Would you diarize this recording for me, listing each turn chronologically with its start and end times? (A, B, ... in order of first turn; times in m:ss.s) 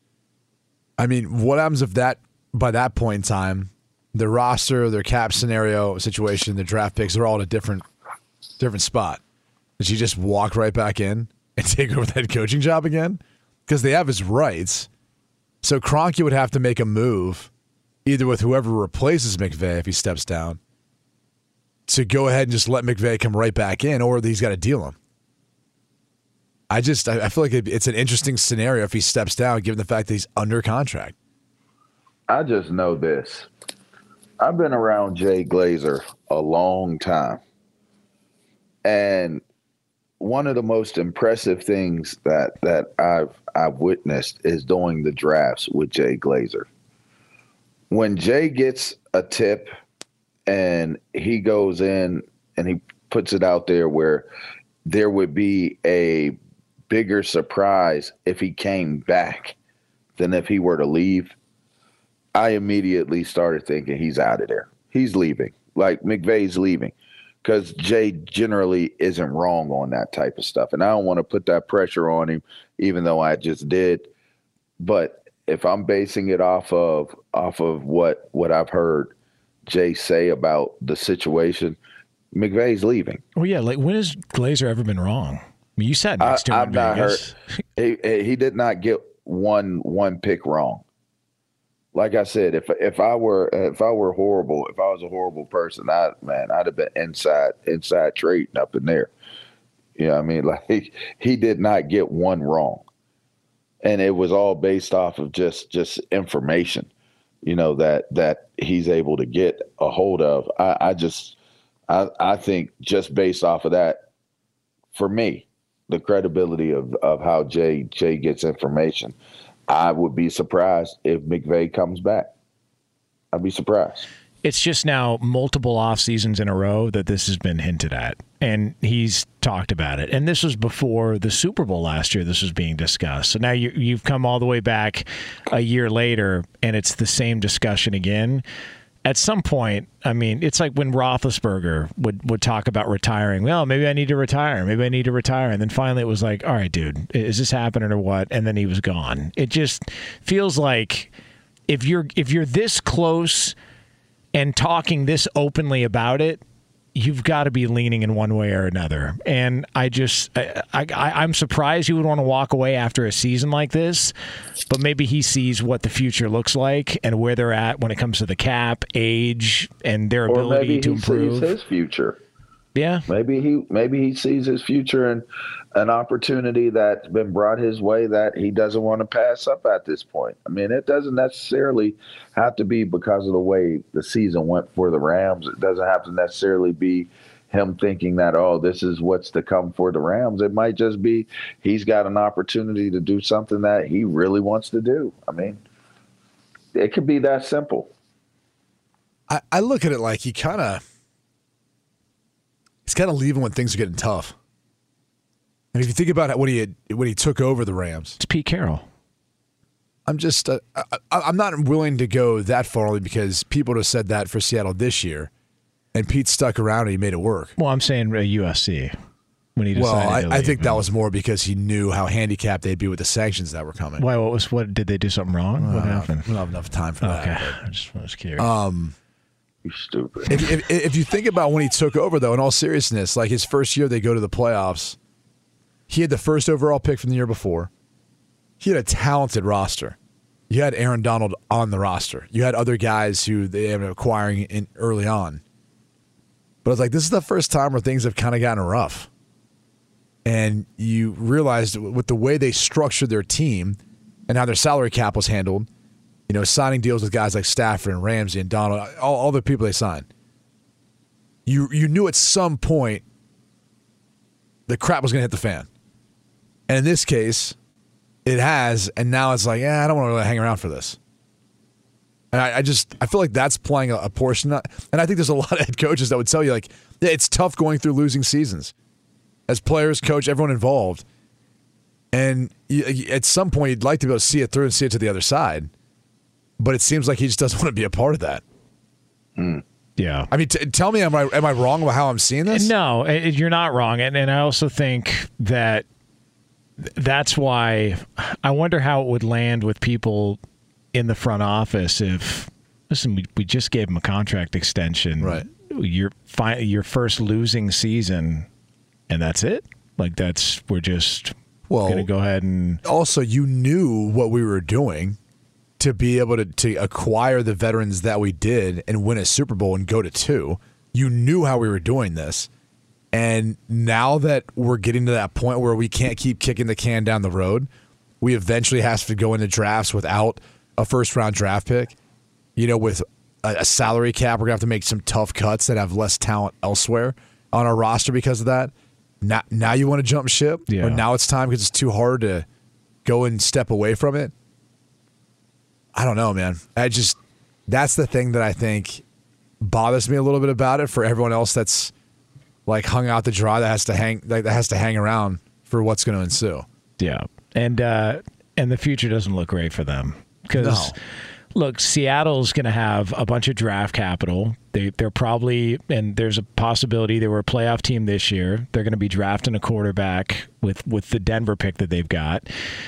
0:01.0-0:07.8 A
0:08.6-0:09.2 A
0:09.8-0:14.9 A
0:15.6-0:17.5 A
0:18.0-0:20.6 A
0:21.9-0:25.0 A
0:26.7-0:31.2 A
0:32.3-0:33.5 B
0:34.4-0:37.4 B
0:38.8-0:39.4 B
0:40.2-0:46.7 B
0:47.9-0:49.7 B
0:50.5-0:54.3 B
0:54.9-0:56.4 B
0:56.9-0:59.6 B
1:00.2-1:01.4 B
1:02.4-1:14.1 B
1:14.8-1:19.1 B
1:19.7-1:21.8 B
1:22.3-1:23.2 B
1:23.4-1:27.3 C
1:26.2-1:30.8 B
1:31.9-1:39.1 B
1:40.0-1:42.8 B
1:43.8-1:46.9 B
1:47.4-1:51.4 B
1:51.9-1:54.0 B
1:55.0-1:59.2 B
1:59.7-2:02.3 B
2:03.3-2:04.1 B
2:04.4-2:18.4 C
2:19.0-2:31.1 C
2:31.7-2:33.6 C
2:34.3-2:36.4 C
2:37.0-2:44.1 C
2:44.7-2:51.5 C
2:50.3-2:52.2 B
2:52.8-2:53.1 C
2:53.1-3:15.6 B
3:16.7-3:17.9 B
3:19.3-3:20.8 A
3:22.9-3:24.4 A
3:25.7-3:28.2 A
3:28.2-3:28.8 C
3:30.1-3:35.3 A
3:35.9-3:37.5 A
3:37.6-3:38.9 C
3:39.6-3:40.8 C
3:39.8-3:44.0 A
3:44.0-3:46.3 C
3:45.6-3:47.6 A
3:47.0-3:48.5 C
3:48.4-3:49.0 A
3:49.6-3:50.4 B
3:50.3-3:55.0 A
3:55.9-3:57.7 A
3:58.6-4:00.0 A
4:00.5-4:05.4 A
4:06.6-4:09.1 A
4:10.2-4:15.7 A
4:16.3-4:20.1 A
4:21.5-4:23.0 A
4:24.7-4:25.7 A
4:26.7-4:27.6 A
4:28.2-4:31.0 A
4:32.3-4:38.7 A
4:39.5-4:41.0 A
4:42.1-4:45.7 A
4:46.6-4:48.4 A
4:49.4-4:49.6 B
4:50.0-4:50.3 C
4:50.3-4:52.7 A
4:52.5-4:55.8 C
4:56.8-5:00.4 C
5:00.9-5:08.5 C
5:05.2-5:05.5 A
5:09.1-5:12.8 C
5:11.7-5:12.1 A
5:12.8-5:15.2 A
5:15.8-5:22.5 A
5:23.1-5:27.7 A
5:28.2-5:32.0 A
5:32.6-5:42.5 A
5:40.7-5:41.0 C
5:43.0-5:44.3 A
5:46.0-5:49.0 A
5:49.6-5:51.9 A
5:52.7-5:56.7 A
5:57.0-6:01.0 C
6:00.6-6:01.0 A
6:01.5-6:12.5 C